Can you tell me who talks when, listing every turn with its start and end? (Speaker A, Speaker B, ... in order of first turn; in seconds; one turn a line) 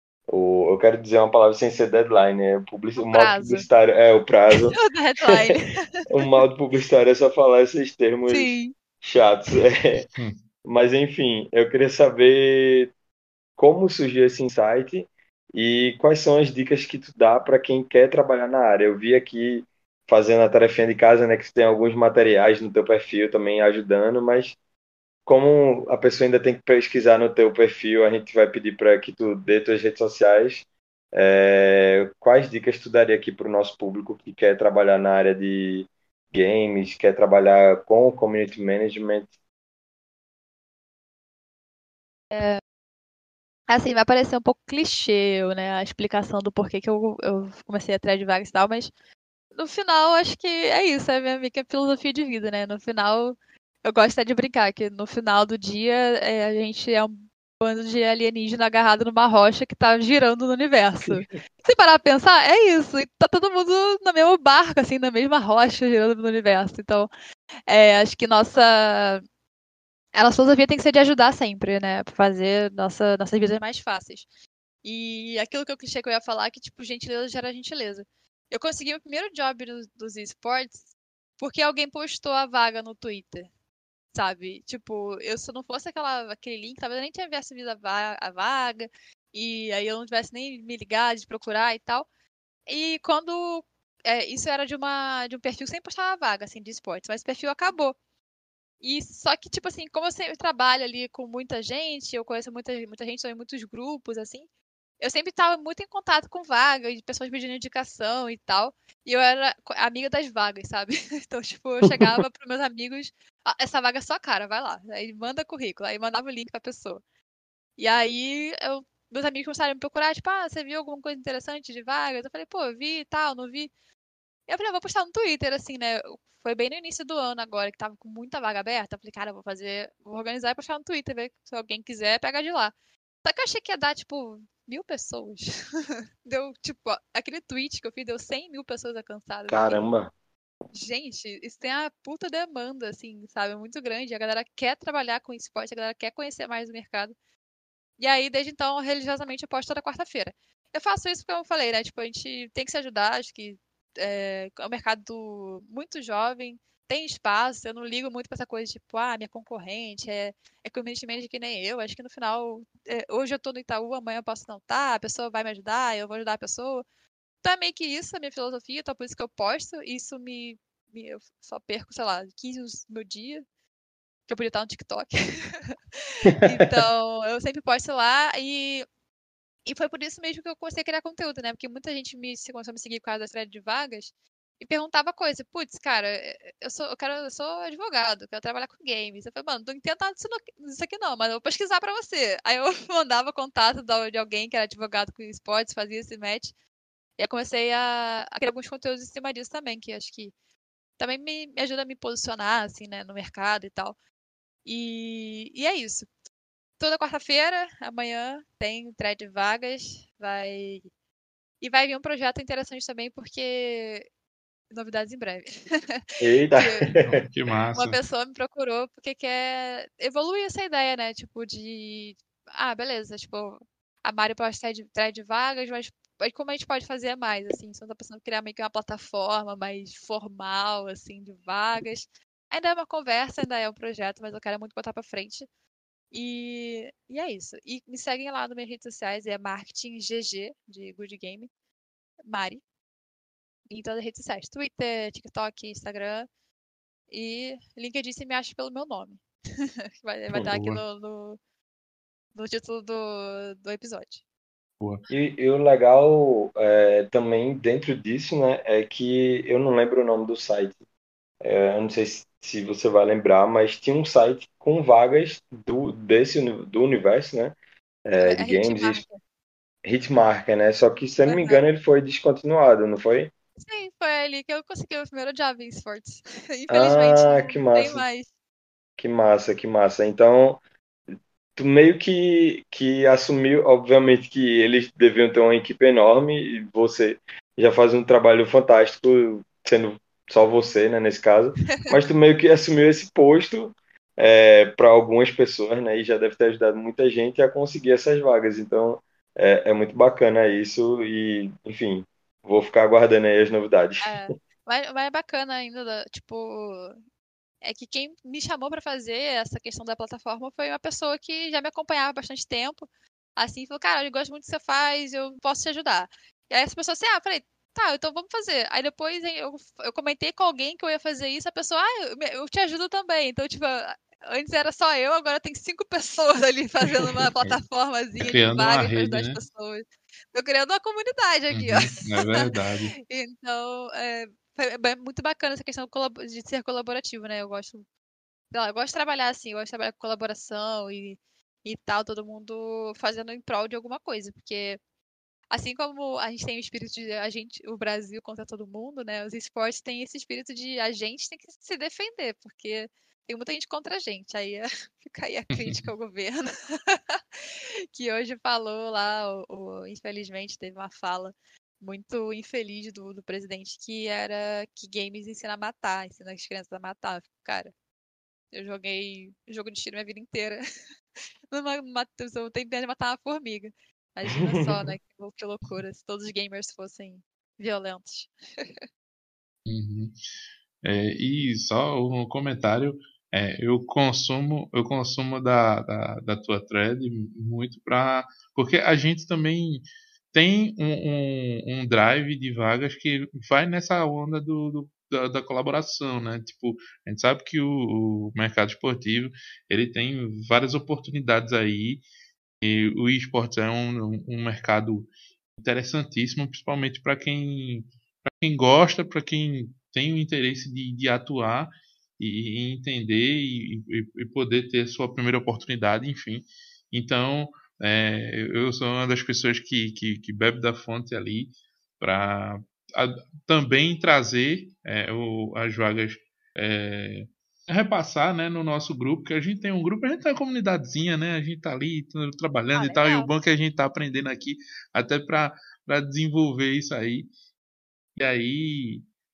Speaker A: 0.3-5.6
Speaker B: 3.0-3.7
Speaker B: 4.6-6.3
Speaker A: 6.1-8.5
Speaker B: 8.3-8.7
Speaker A: 9.0-10.0
Speaker A: 10.6-12.9
Speaker A: 13.6-24.6
Speaker A: 25.2-39.3
Speaker B: 42.3-42.6
Speaker B: 43.7-48.9
Speaker B: 49.5-67.1
Speaker B: 67.7-69.2
Speaker B: 70.1-74.2
Speaker B: 74.8-80.9
Speaker B: 81.4-83.5
Speaker B: 84.1-92.0
Speaker B: 92.7-97.9
Speaker B: 98.8-104.5
Speaker B: 105.0-117.0
Speaker B: 117.8-123.7
Speaker B: 124.5-139.8
Speaker A: 139.5-140.1
Speaker B: 140.7-147.1
Speaker B: 148.0-166.8
Speaker B: 167.4-173.4
Speaker B: 174.3-178.8
Speaker B: 179.7-196.5
Speaker B: 197.2-200.3
Speaker B: 201.0-203.9
Speaker B: 204.6-206.1
Speaker B: 206.8-210.9
Speaker B: 211.6-214.1
Speaker B: 214.7-216.9
Speaker A: 216.2-217.1
Speaker C: 217.0-218.0
Speaker B: 217.7-235.5
Speaker B: 236.1-241.5
Speaker B: 242.2-242.6
Speaker B: 243.7-246.3
Speaker B: 247.1-251.4
Speaker C: 250.5-250.8
Speaker B: 252.3-254.2
Speaker A: 255.1-260.8
Speaker A: 261.4-269.0
Speaker B: 268.2-269.2
Speaker A: 269.8-273.3
Speaker B: 271.2-271.6
Speaker B: 273.6-278.3
Speaker A: 276.7-278.0
Speaker A: 279.0-280.6
Speaker A: 281.6-304.2
Speaker B: 304.0-307.0
Speaker B: 307.6-332.5
Speaker C: 328.2-329.4
Speaker C: 331.5-332.9
Speaker B: 333.0-337.8
Speaker B: 338.5-344.8
Speaker B: 345.5-367.7
Speaker C: 355.5-355.9
Speaker B: 368.5-370.6
Speaker B: 371.5-378.7
Speaker A: 374.3-374.9
Speaker C: 379.6-380.1
Speaker C: 380.8-402.0
Speaker C: 402.6-437.3
Speaker B: 432.7-433.3
Speaker C: 438.1-439.1